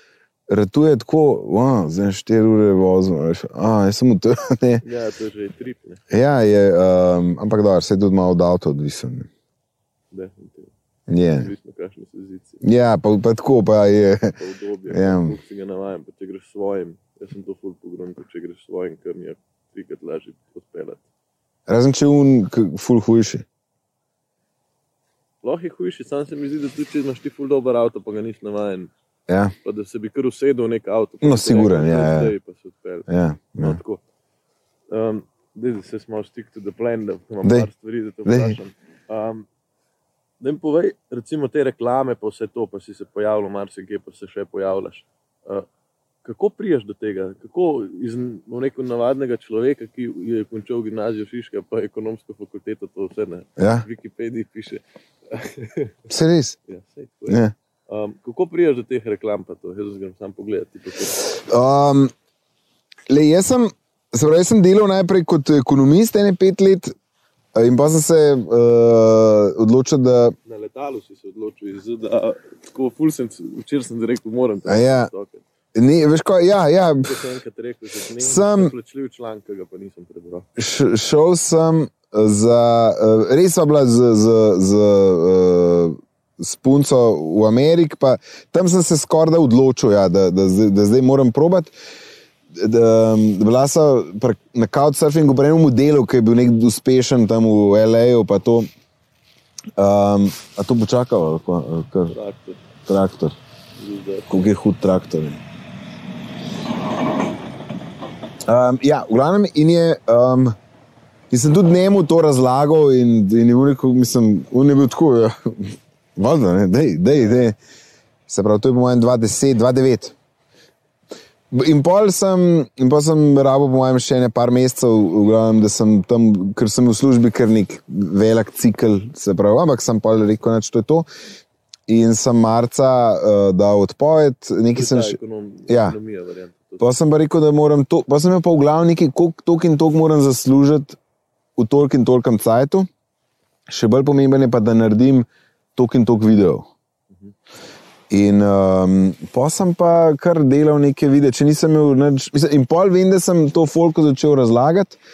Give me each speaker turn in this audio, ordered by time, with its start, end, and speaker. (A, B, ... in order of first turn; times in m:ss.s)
0:00.5-0:04.8 A
0:04.8-0:06.0 B
0:06.1-0:09.3 A
0:10.1-0:10.7 B
0:11.1-0:11.5 A
0:11.3-0:12.6 B
0:12.6-0:14.3 A
0:14.3-0:21.0 B
0:14.9-0:15.3 A
0:21.7-0:23.4 A
0:25.4-0:28.9 B
0:29.3-0:29.5 A
0:29.6-0:34.0 B
0:31.2-0:32.3 A
0:33.1-0:33.8 A
0:34.9-0:39.5 B
0:37.4-0:37.7 A
0:38.2-0:38.6 A
0:40.4-0:45.6 B
0:46.2-0:56.1 B
0:53.6-0:53.8 A
0:56.1-0:56.6 A
0:56.7-1:01.3 B
0:57.3-0:57.5 A
1:01.3-1:02.1 A
1:03.1-1:06.9 A
1:07.5-1:10.3 A
1:10.4-1:15.4 B
1:14.6-1:15.1 A
1:15.7-1:17.2 A
1:17.0-1:20.5 B
1:18.2-1:18.7 A
1:20.6-1:31.7 A
1:32.5-1:38.7 A
1:39.8-1:42.1 A
1:42.1-1:42.6 B
1:42.8-1:43.3 A
1:43.8-1:44.3 B
1:44.3-1:45.4 A
1:48.4-1:50.6 A
1:51.3-1:57.6 A
1:58.3-2:00.1 A
2:01.5-2:11.1 A
2:11.9-2:16.0 A
2:14.7-2:16.8 B
2:16.8-2:21.0 A
2:21.6-2:22.9 A
2:23.7-2:26.7 A
2:28.1-2:35.0 A